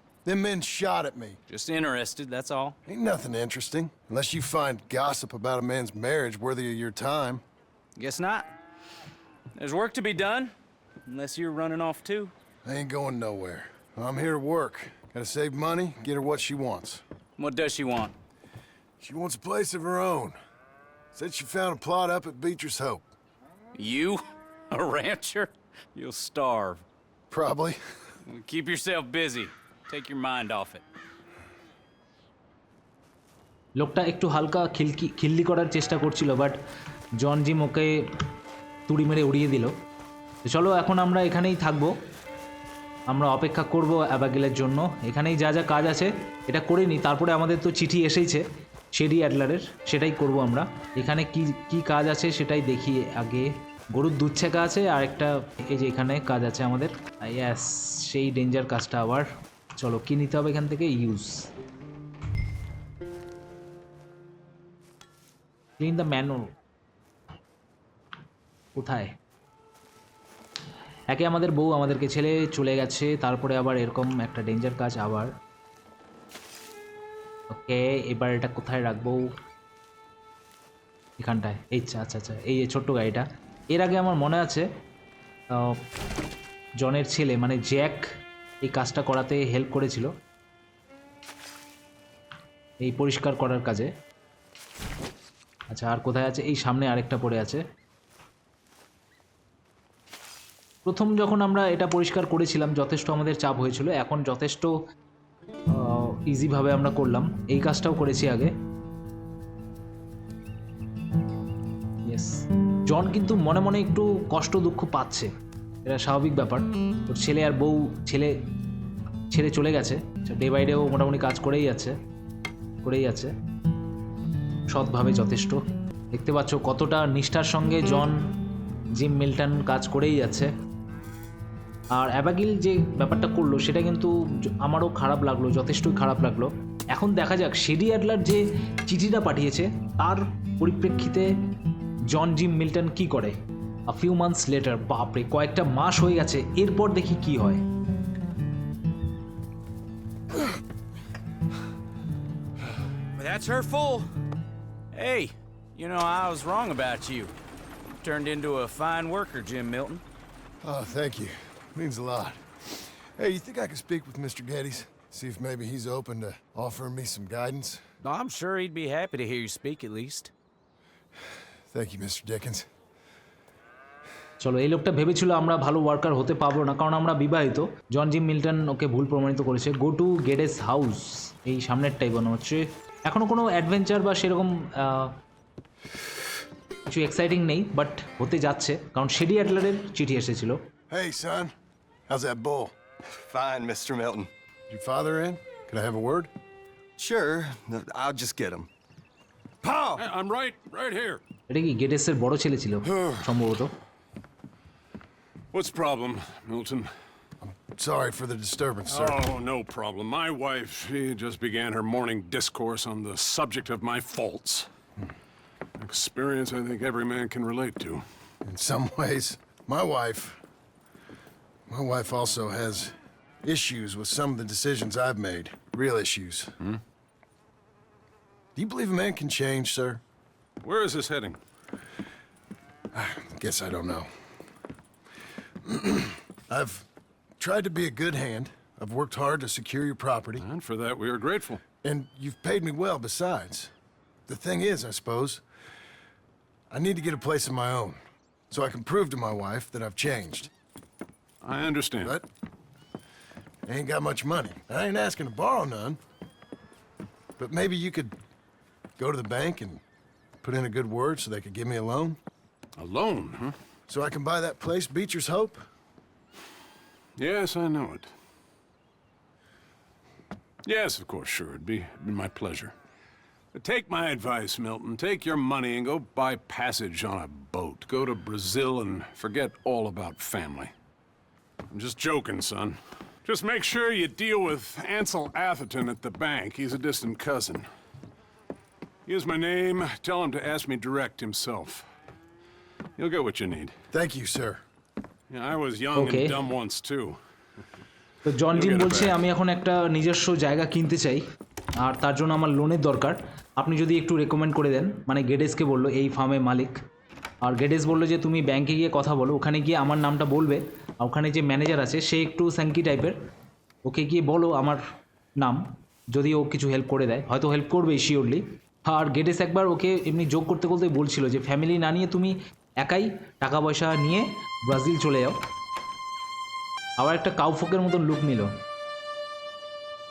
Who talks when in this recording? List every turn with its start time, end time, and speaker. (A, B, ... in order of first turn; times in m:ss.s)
0:00.2-0:01.4 A
0:01.5-0:02.8 B
0:02.8-0:07.4 A
0:08.0-0:08.5 B
0:09.6-0:10.5 B
0:11.1-0:12.3 B
0:12.6-0:17.0 A
0:17.4-0:18.1 B
0:19.0-0:20.3 A
0:21.1-0:23.1 A
0:23.8-0:24.2 B
0:24.7-0:26.8 B
0:27.3-0:27.8 A
0:28.2-0:30.8 B
0:33.8-0:36.6 C
0:37.2-0:38.0 C
0:38.9-0:39.7 C
0:40.4-0:41.9 C
0:43.1-0:48.4 C
0:48.9-1:01.5 C
1:05.8-1:06.5 C
1:08.8-1:09.2 C
1:11.1-1:15.3 C
1:17.5-1:19.3 C
1:21.2-1:24.7 C
1:25.5-1:25.8 C
1:26.8-1:28.1 C
1:28.6-1:30.1 C
1:32.8-1:33.9 C
1:35.7-1:37.6 C
1:40.8-1:44.7 C
1:45.7-1:48.5 C
1:52.0-1:55.3 C
1:55.8-1:58.3 C
1:59.3-2:02.0 C
2:02.8-2:03.3 C
2:04.7-2:05.6 C
2:06.1-2:08.2 C
2:09.0-2:10.5 C
2:11.9-2:21.3 C
2:22.1-2:23.4 C
2:23.9-2:27.6 C
2:33.2-2:34.1 B
2:34.9-2:37.3 B
2:38.0-2:40.0 B
2:40.6-2:47.8 A
2:48.0-2:50.3 B
2:51.7-2:52.7 A
2:54.4-3:05.2 C
3:06.9-3:10.6 C
3:10.9-3:11.5 A
3:12.1-3:12.7 A
3:13.2-3:14.3 D
3:14.7-3:16.3 A
3:17.0-3:18.7 D
3:19.6-3:20.0 D
3:20.0-3:21.2 E
3:21.5-3:23.7 C
3:25.5-3:26.9 E
3:27.4-3:29.2 A
3:28.9-3:34.7 E
3:35.8-3:38.0 E
3:38.4-3:40.4 A
3:41.7-3:46.5 A
3:48.6-3:50.0 A
3:50.6-3:51.4 E
3:52.9-3:54.1 A
3:55.6-3:56.9 A
3:57.4-4:00.4 A
4:00.4-4:01.6 E
4:01.8-4:03.7 A
4:04.3-4:05.4 A
4:06.7-4:08.0 A
4:08.5-4:10.5 A
4:11.4-4:12.2 E
4:13.7-4:16.0 A
4:17.4-4:18.1 A
4:19.0-4:19.8 A
4:20.4-4:22.2 A
4:22.8-4:23.5 E
4:23.9-4:25.6 A
4:27.2-4:28.1 E
4:30.6-4:32.7 E
4:33.5-4:40.7 E
4:41.7-4:47.7 E
4:49.1-4:51.8 E
4:53.0-4:53.8 E
4:53.9-4:54.6 A
4:55.3-4:57.2 E
4:56.0-4:56.4 C
4:58.2-5:01.2 C
4:58.5-4:59.2 E
5:01.8-5:06.8 C
5:07.4-5:13.2 C
5:13.9-5:14.8 C
5:15.4-5:25.4 C
5:27.0-5:28.5 C